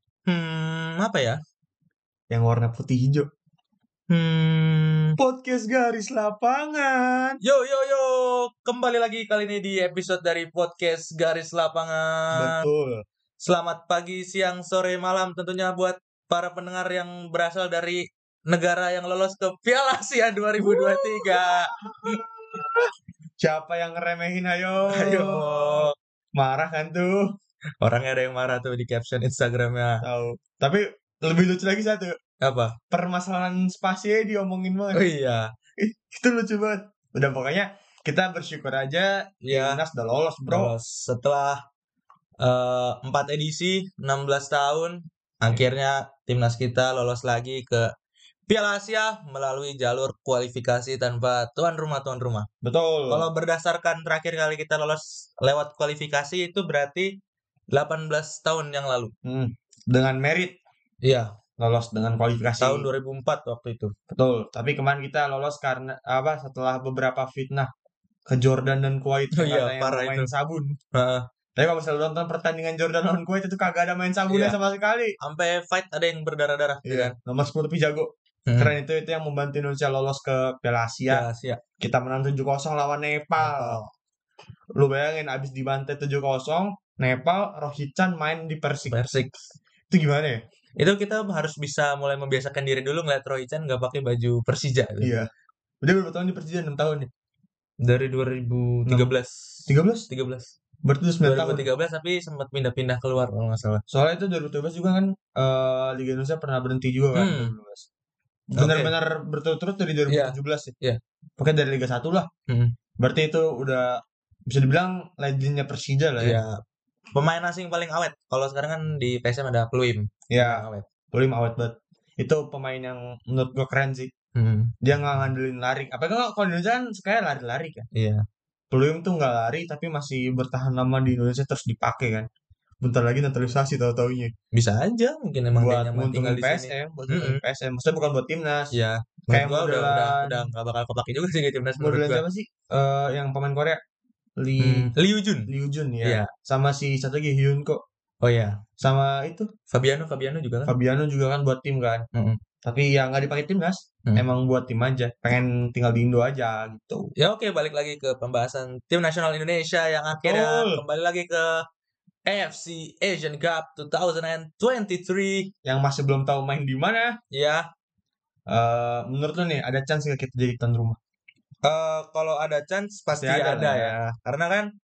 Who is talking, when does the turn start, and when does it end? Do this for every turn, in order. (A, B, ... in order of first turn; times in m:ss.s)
0:00.3-0:01.4 A
0:02.3-0:03.3 B
0:04.1-0:05.2 A
0:05.2-0:07.4 B
0:07.4-0:12.6 A
0:12.3-0:13.0 B
0:13.4-0:22.2 A
0:20.6-0:27.3 B
0:24.9-0:26.0 A
0:27.8-0:30.0 A
0:30.0-0:32.2 B
0:32.4-0:32.8 A
0:32.9-0:35.1 B
0:34.9-0:35.5 A
0:35.8-0:40.7 B
0:39.4-0:39.8 A
0:40.5-0:41.6 A
0:42.4-0:47.9 A
0:48.5-0:52.5 A
0:52.6-0:53.3 B
0:53.1-0:57.2 A
0:57.7-0:59.1 A
0:59.2-1:00.6 B
1:01.0-1:01.3 A
1:01.6-1:02.9 B
1:02.6-1:04.0 A
1:04.1-1:07.7 B
1:08.3-1:10.8 B
1:09.4-1:10.3 A
1:10.9-1:11.3 A
1:11.6-1:15.2 B
1:14.3-1:14.6 A
1:15.2-1:17.2 A
1:16.8-1:21.3 B
1:18.5-1:18.7 A
1:21.1-1:21.6 A
1:21.8-1:23.8 B
1:23.4-1:23.9 A
1:24.8-1:29.0 B
1:28.9-1:29.5 A
1:29.9-1:30.4 B
1:30.8-1:35.1 A
1:35.0-1:35.3 B
1:35.8-1:37.1 B
1:37.8-1:40.5 A
1:39.7-1:40.1 B
1:40.8-1:41.6 B
1:41.2-1:43.8 A
1:43.9-1:47.9 B
1:47.2-1:47.5 A
1:48.5-1:50.7 B
1:48.6-1:48.9 A
1:50.1-1:51.0 A
1:51.4-1:52.3 B
1:52.5-1:52.8 A
1:53.0-1:56.4 B
1:56.2-1:56.6 A
1:57.1-2:00.9 A
2:00.3-2:04.1 B
2:04.4-2:04.8 A
2:04.8-2:07.9 B
2:07.9-2:08.2 A
2:08.7-2:12.3 B
2:12.8-2:14.3 B
2:14.5-2:17.4 A
2:15.6-2:18.7 B
2:18.7-2:22.2 A
2:19.3-2:20.5 B
2:21.8-2:23.8 B
2:24.4-2:24.9 B
2:24.6-2:25.5 A
2:25.5-2:27.8 B
2:26.0-2:26.3 A
2:28.2-2:28.6 A
2:28.8-2:29.5 B
2:29.7-2:30.7 A
2:30.7-2:32.1 B
2:32.1-2:32.4 A
2:32.6-2:37.1 B
2:37.2-2:41.7 A
2:40.1-2:40.8 B
2:42.3-2:45.5 A
2:45.6-2:47.2 B
2:47.3-2:47.7 A
2:48.5-2:51.0 B
2:51.6-2:54.7 A
2:53.1-2:54.0 B